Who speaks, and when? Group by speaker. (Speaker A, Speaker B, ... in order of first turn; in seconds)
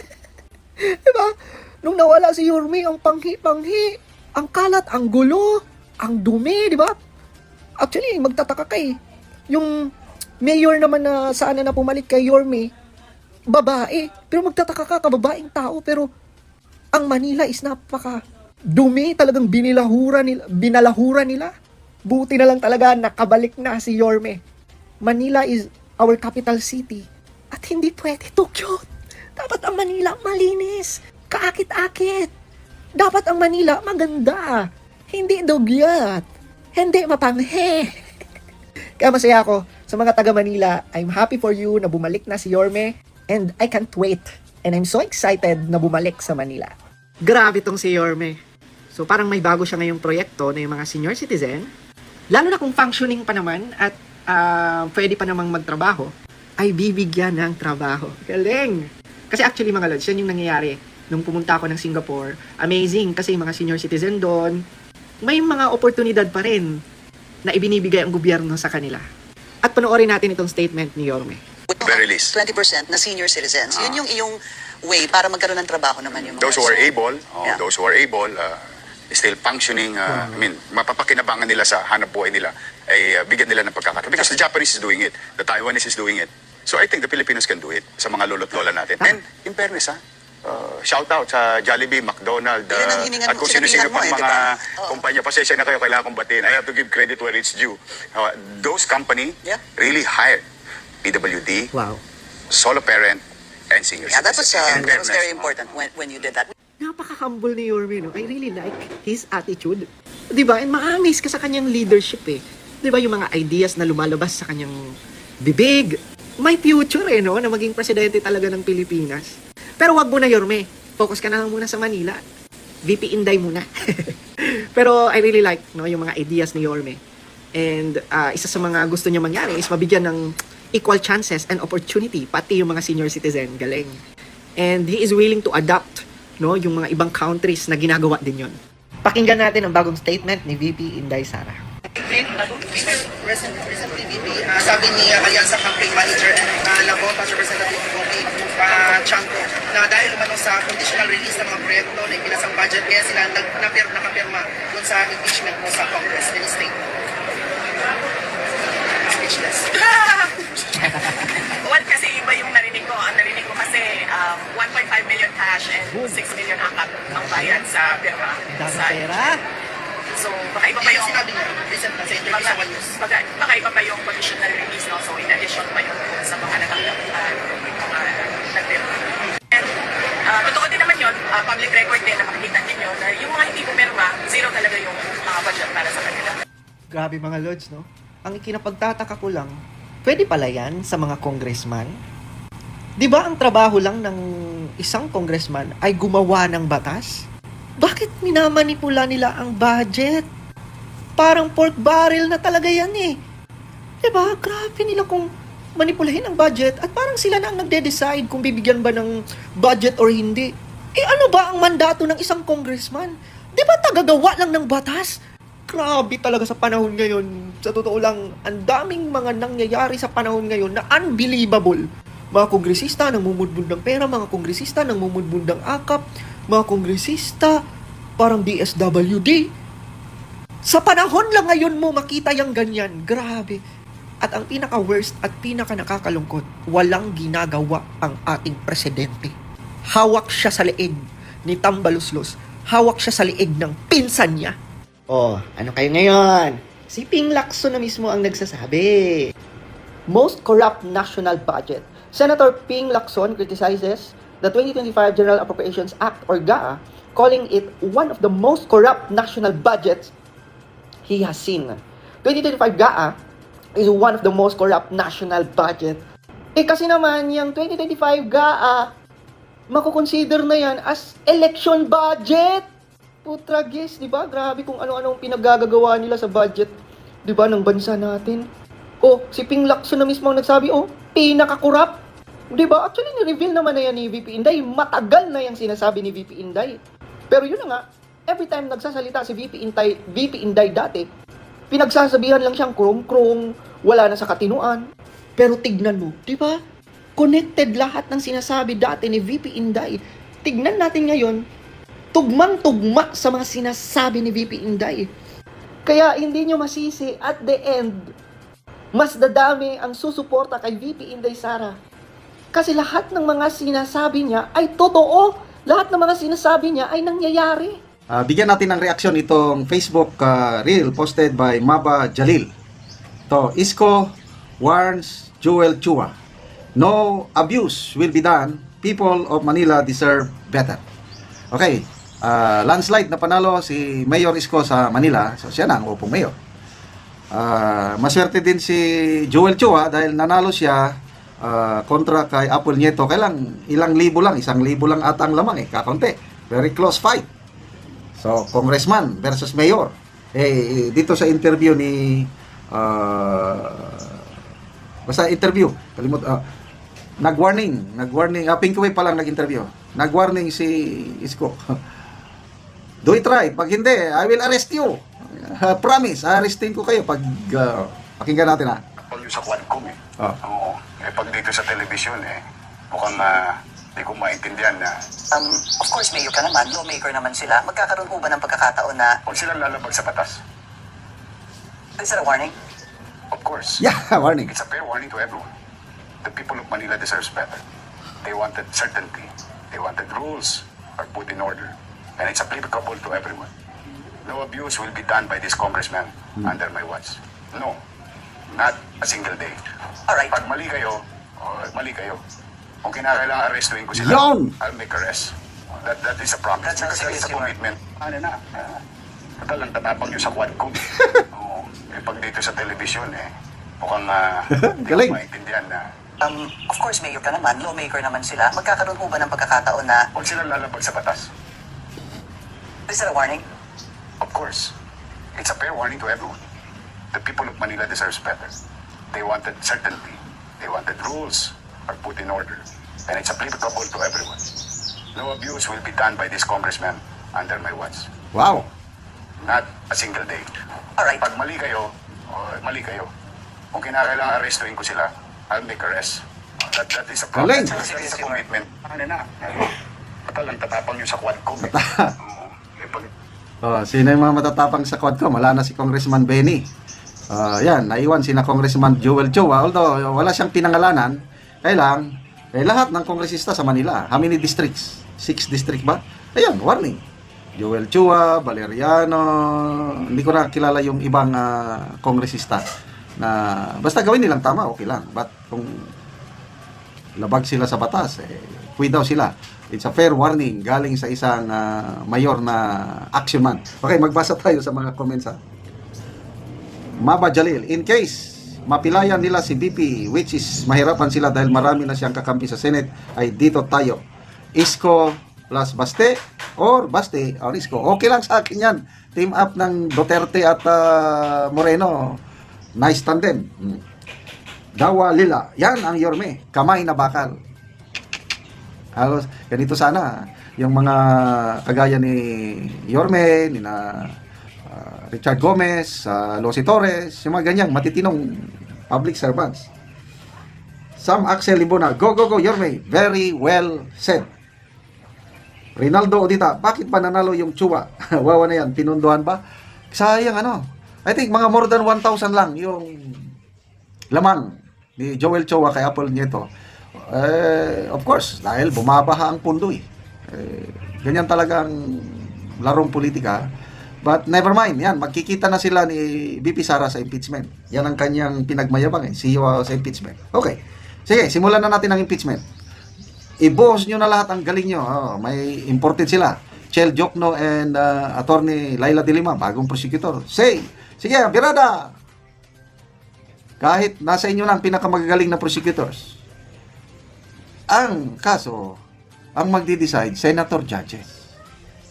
Speaker A: 0.8-7.0, 7.8-9.0, 9.5-12.7, 13.5-16.1, 16.9-18.2, 18.7-21.5, 22.1-24.4, 25.0-32.3, 33.0-37.9, 39.0-46.7, 47.2-48.4, 48.9-51.7, 52.3-64.6, 65.2-66.8, 67.5-69.0, 69.6-71.4, 80.1-80.4, 101.7-102.0, 106.8-114.8, 115.4-122.2, 122.8-127.0, 127.5-134.0, 134.6-141.6, 160.7-161.3, 165.9-166.2, 167.1-167.6, 168.5-169.4, 186.9-189.5, 190.0-192.0, 193.0-194.2, 194.8-197.2, 197.8-200.3, 201.2-203.2, 204.0-227.6, 228.2-229.5, 230.6-233.6, 234.2-239.3, 239.9-244.6, 245.1-249.3, 250.1-260.1, 261.1-263.1, 263.8-266.0, 266.6-268.9, 269.7-272.6, 273.2-276.7, 277.2-278.4, 279.0-282.0, 282.5-286.8, 287.3-291.1, 291.7-294.9, 295.4-296.6, 297.2-301.4, 302.1-305.1, 305.9-308.1, 308.9-311.8, 312.5-317.8
Speaker B: 71.7-74.3, 74.9-76.9, 92.7-95.0, 104.1-106.5, 375.3-379.1, 382.0-382.5, 400.1-400.3, 406.6-407.5, 416.2-420.0, 422.9-423.4, 441.0-441.2, 447.7-448.4
Speaker C: 71.8-72.4, 73.7-74.0, 76.2-78.6, 79.1-100.4, 101.0-101.7, 102.5-105.8, 369.1-372.4, 372.9-374.9, 379.2-380.4, 383.3-383.8, 384.5-385.5, 386.2-387.6, 388.2-393.5, 394.2-397.8, 398.5-399.6, 400.3-402.2, 402.8-408.8, 409.4-413.3, 413.8-415.8, 420.1-421.3, 424.2-424.7, 425.4-426.4, 427.1-428.5, 429.1-434.4, 435.1-438.1, 439.4-440.5, 441.2-443.1, 443.7-449.7, 450.3-453.1
Speaker D: 142.0-156.7, 159.1-159.7, 170.9-172.8
Speaker E: 159.7-160.3, 161.2-169.1, 170.1-171.3, 172.1-178.9, 180.2-186.4
Speaker F: 318.1-322.5, 323.3-326.1, 326.8-330.8, 331.5-336.4, 337.3-347.3, 348.2-354.2, 355.1-356.4, 357.2-361.8, 363.0-368.8, 383.8-384.5, 403.9-404.5, 414.5-415.2, 438.3-438.7, 447.3-447.8, 451.6-452.1, 453.6-456.7, 457.3-467.0, 467.6-472.6, 473.2-475.9, 477.2-485.4, 487.0-494.0, 494.6-502.2, 502.8-503.8, 504.8-507.4, 508.9-519.7, 521.0-524.3, 525.8-529.4, 529.9-533.3, 534.1-536.5, 537.0-543.4, 544.0-552.4, 553.4-561.9, 563.6-566.2, 567.7-568.8, 569.4-571.2